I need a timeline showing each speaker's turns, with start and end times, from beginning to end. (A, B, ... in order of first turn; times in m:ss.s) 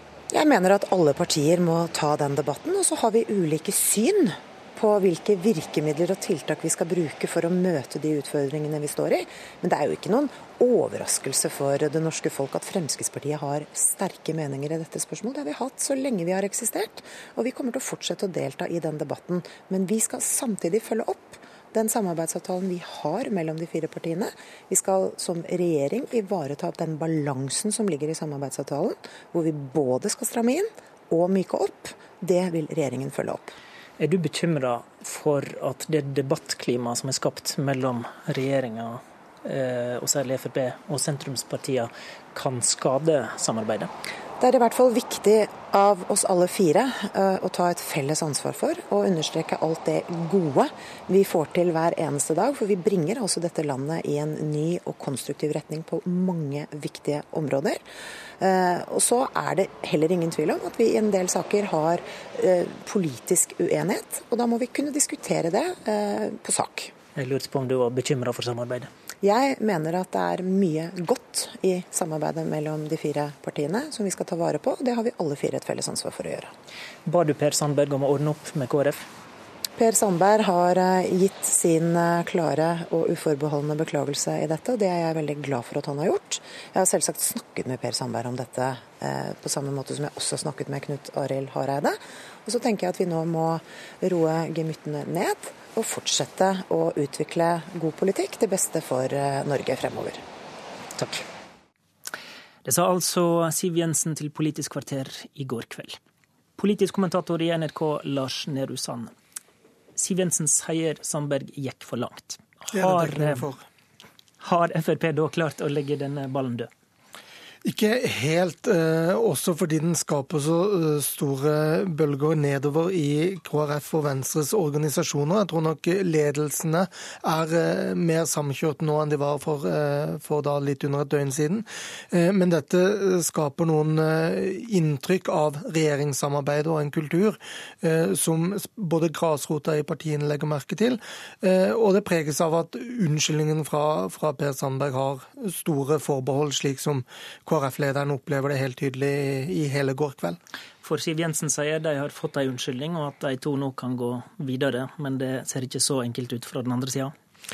0:00.3-0:33.5 A
0:34.0-0:43.9 B
0:44.4-0:57.8 A
0:58.4-1:06.9 A
1:07.2-1:08.9 B
1:09.2-1:16.5 A
1:17.1-1:19.0 B
1:19.8-1:40.2 A
1:42.6-1:46.0 B
1:46.6-1:49.1 B
1:50.0-1:53.5 B
1:52.7-1:53.6 C
1:54.4-1:56.7 B
1:57.6-2:30.4 C
2:30.8-2:37.1 B